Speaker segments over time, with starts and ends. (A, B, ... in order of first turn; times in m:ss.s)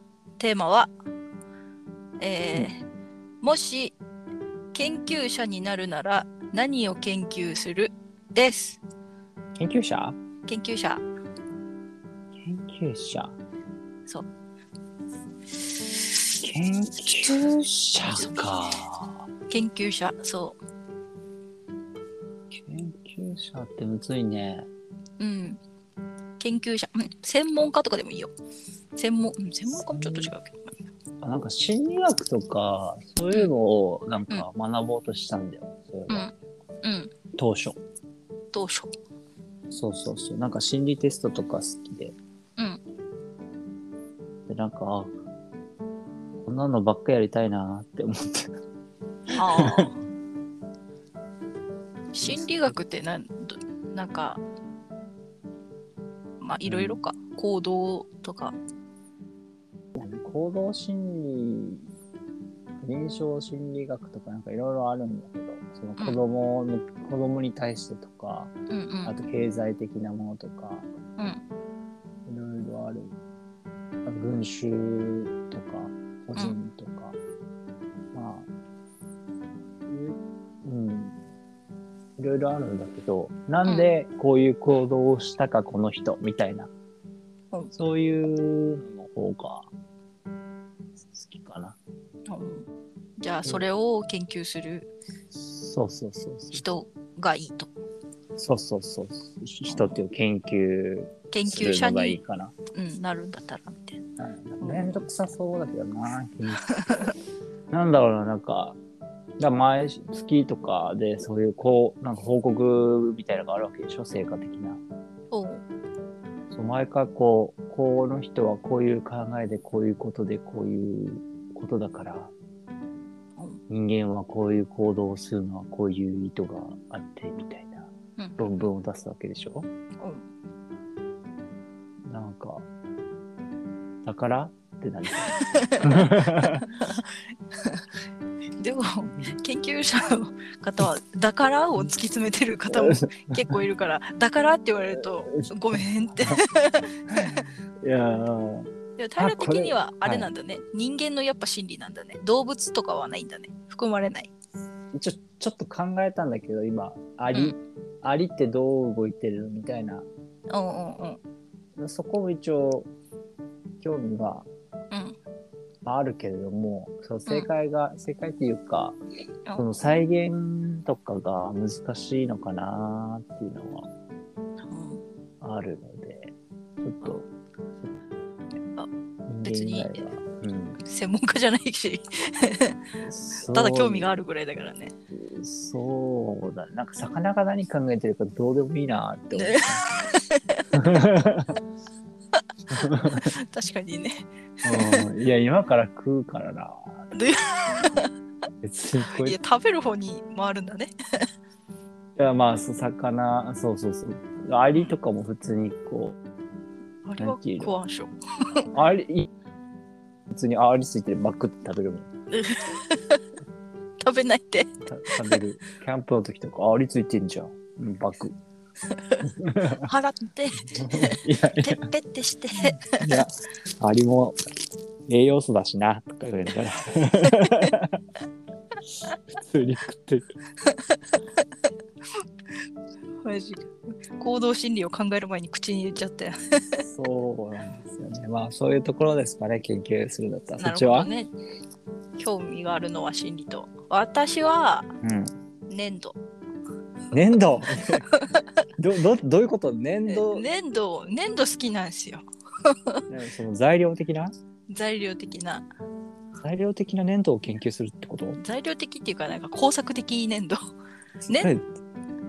0:00.4-0:00.9 A
0:02.2-0:02.8 A
0:03.4-0:04.0 A
0:04.7-0:08.8 A
0:09.6-0:10.2 B
0:10.4-0:11.0 A
0:12.4-0:13.3 B
0:16.4-0:19.2 B
0:18.0-0:18.4 A
0:19.5-0:20.6 A
0:22.5-0:24.7 B
0:25.2-0:25.6 A
0:26.4-0:28.3 A
0:29.0-0:30.7 A
0:29.7-0:30.3 B
0:31.2-0:36.3 B
0:36.1-0:37.1 A
0:37.3-0:37.8 B
0:38.5-0:38.9 A
0:39.7-0:42.2 B
0:44.5-0:45.1 B
0:46.4-0:48.6 B
0:49.3-0:49.9 B
0:49.3-0:50.0 A
0:52.1-0:54.4 A
0:52.2-0:52.7 B
0:56.4-0:58.6 A
0:56.6-0:57.0 B
0:59.9-1:01.9 B
1:02.8-1:08.5 B
1:08.7-1:09.1 A
1:09.0-1:10.9 B
1:12.2-1:13.2 B
1:14.0-1:17.2 B
1:18.1-1:18.5 B
1:19.9-1:21.2 B
1:22.2-1:26.7 B
1:23.6-1:23.9 A
1:27.7-1:29.7 B
1:31.0-1:31.8 B
1:32.3-1:34.9 A
1:35.3-1:36.6 B
1:36.5-1:37.7 A
1:38.4-1:42.5 B
1:41.3-1:42.2 A
1:42.7-1:44.0 A
1:44.2-1:47.0 B
1:44.6-1:45.0 A
1:46.7-1:47.1 A
1:47.7-1:48.8 B
1:49.4-1:54.8 B
1:55.3-1:55.6 A
1:56.5-2:02.3 B
2:03.7-2:09.7 B
2:08.2-2:08.5 A
2:10.0-2:10.2 A
2:12.0-2:12.6 B
2:14.0-2:16.7 B
2:15.2-2:17.9 A
2:18.6-2:27.4 A
2:22.7-2:23.6 B
2:25.3-2:26.4 B
2:27.1-2:30.3 B
2:29.0-2:34.3 A
2:34.9-2:40.1 B
2:37.3-2:37.6 A
2:40.5-2:41.2 A
2:41.8-2:42.9 B
2:43.8-2:44.5 B
2:44.9-2:45.2 A
2:45.8-2:49.0 B
2:49.6-2:53.9 B
2:54.6-2:55.0 A
2:55.4-2:57.3 B
2:59.3-3:00.8 B
2:59.4-3:00.0 A
3:00.8-3:02.8 A
3:03.0-3:04.1 B
3:03.5-3:04.9 A
3:05.1-3:09.8 B
3:09.3-3:10.6 A
3:10.7-3:11.5 B
3:12.7-3:13.3 B
3:13.0-3:15.0 A
3:14.6-3:16.9 B
3:17.1-3:18.1 A
3:18.6-3:19.4 B
3:19.1-3:21.3 A
3:22.2-3:26.2 B
3:27.0-3:28.7 A
3:27.2-3:27.7 B
3:28.7-3:29.3 B
3:30.3-3:32.1 B
3:32.3-3:33.2 A
3:34.0-3:35.4 A
3:34.8-3:38.4 B
3:38.9-3:39.2 A
3:39.2-3:39.9 B
3:39.8-3:43.2 A
3:40.7-3:41.9 B
3:42.6-3:44.4 B
3:45.1-3:48.0 B
3:47.2-3:47.7 A
3:49.0-3:50.3 B
3:50.6-3:51.6 A
3:53.2-3:56.8 A
3:56.8-4:01.1 B
4:00.6-4:01.3 A
4:02.2-4:04.9 A
4:05.0-4:05.3 B
4:05.7-4:06.2 A
4:07.1-4:08.2 B
4:08.1-4:08.4 A
4:08.8-4:10.5 B
4:10.1-4:13.0 A
4:13.1-4:14.3 B
4:14.7-4:15.6 A
4:16.4-4:18.4 B
4:18.4-4:20.6 A
4:21.3-4:21.7 B